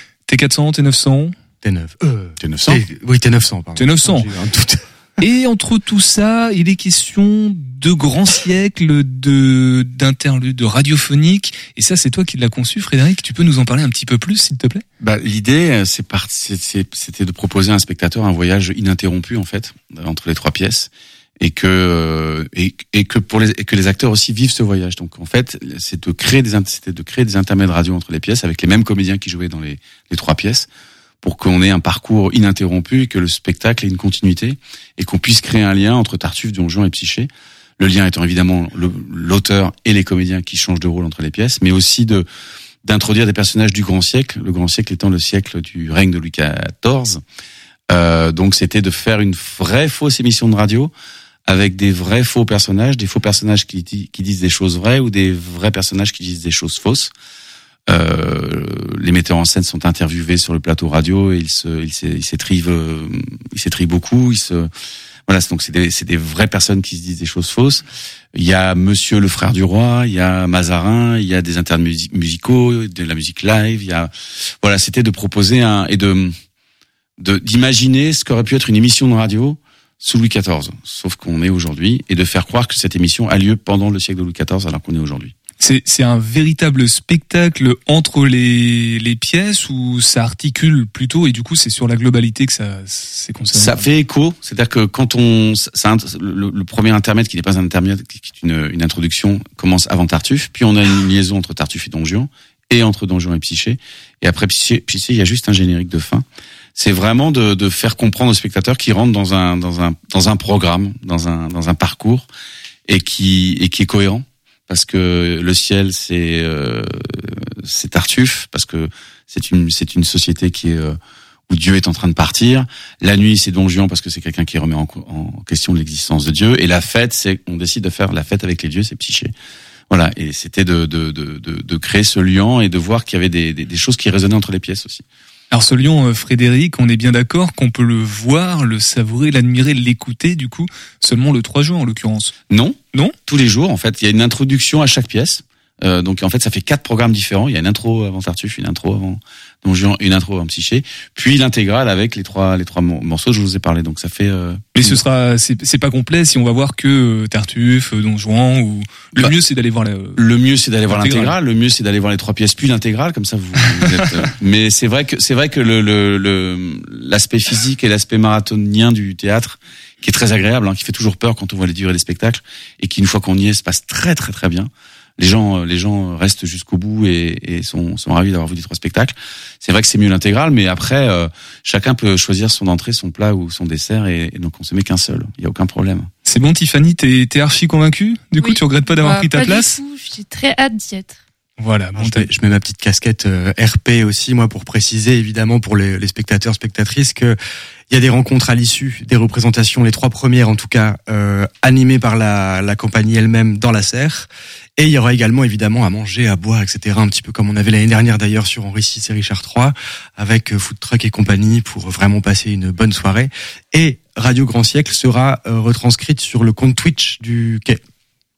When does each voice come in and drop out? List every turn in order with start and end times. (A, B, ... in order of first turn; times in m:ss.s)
0:00.3-0:01.3 A
0:01.6-0:04.8 B
0:02.4-0:02.8 C
0:03.8-0:04.3 A
0:05.2-0:14.8 A
0:15.0-0:30.7 C
0:31.2-0:42.2 C
0:42.8-0:47.2 C
0:47.9-0:50.9 C
0:51.4-0:57.1 C
0:57.9-1:04.7 C
1:05.3-1:07.8 C
1:08.3-1:16.3 C
1:17.2-1:25.3 C
1:25.6-1:33.8 A
1:33.5-1:52.3 C
1:52.9-2:01.0 C
2:01.5-2:09.3 C
2:09.9-2:15.0 C
2:15.5-2:22.3 A
2:22.5-2:35.0 C
2:34.7-2:40.2 A
2:40.2-3:06.1 C
2:40.9-2:41.3 A
3:06.2-3:09.8 A
3:08.4-3:11.2 D
3:11.6-3:12.3 A
3:11.9-3:17.4 B
3:17.9-3:37.8 B